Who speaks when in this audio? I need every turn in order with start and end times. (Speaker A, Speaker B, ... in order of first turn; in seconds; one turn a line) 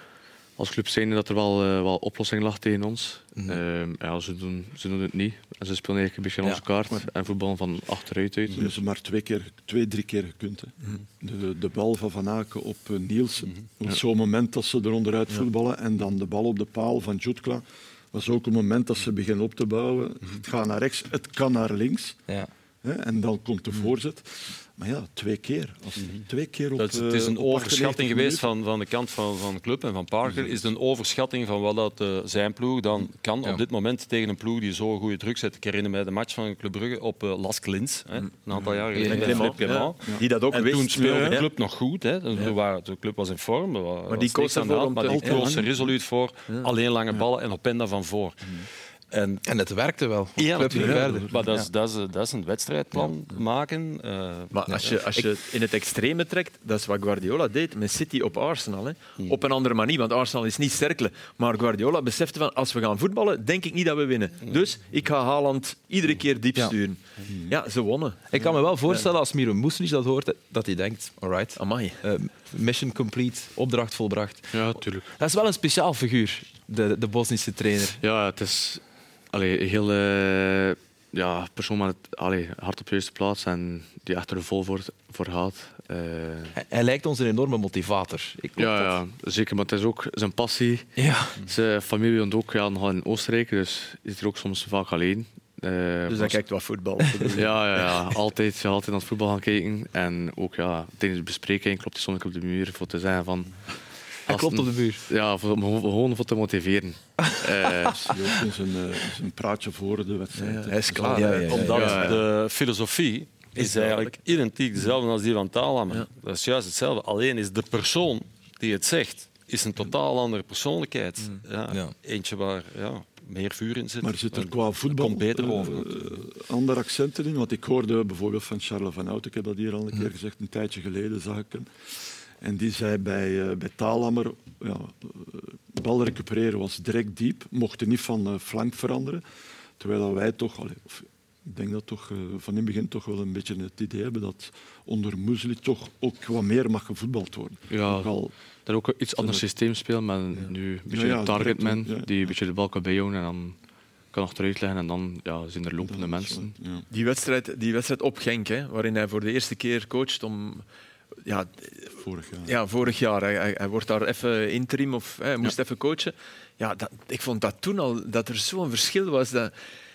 Speaker A: 0.6-8.7
Speaker B: 3.4-3.6
Speaker C: 8.5-22.2
Speaker C: 22.8-28.5
Speaker D: 26.0-49.4
Speaker C: 30.3-30.6
Speaker C: 38.5-39.3
Speaker B: 38.9-39.5
Speaker E: 39.0-41.5
Speaker C: 40.9-41.4
Speaker E: 44.1-45.6
Speaker C: 45.1-45.9
Speaker B: 49.5-51.7
Speaker D: 50.4-55.0
Speaker C: 50.7-51.3
Speaker E: 54.5-69.1
Speaker B: 54.7-55.3
Speaker B: 68.3-78.0
Speaker E: 71.6-72.0
Speaker A: 74.5-75.2
Speaker A: 78.0-86.6
Speaker B: 86.5-89.0
Speaker A: 88.6-96.5
Speaker B: 91.0-91.4
Speaker E: 96.1-98.0
Speaker A: 97.3-108.2
Speaker B: 104.3-105.0
Speaker B: 107.4-107.9
Speaker C: 107.9-111.5
Speaker E: 110.3-112.2
Speaker B: 111.1-111.8
Speaker D: 111.5-126.1
Speaker A: 111.7-112.2
Speaker E: 113.5-114.2
Speaker B: 121.7-121.9
Speaker C: 124.0-139.2
Speaker C: 139.8-148.4
Speaker A: 147.7-156.6
Speaker C: 149.1-149.5
Speaker C: 150.3-152.4
Speaker C: 155.8-156.9
Speaker E: 156.9-160.7
Speaker E: 161.2-169.5
Speaker C: 162.0-162.5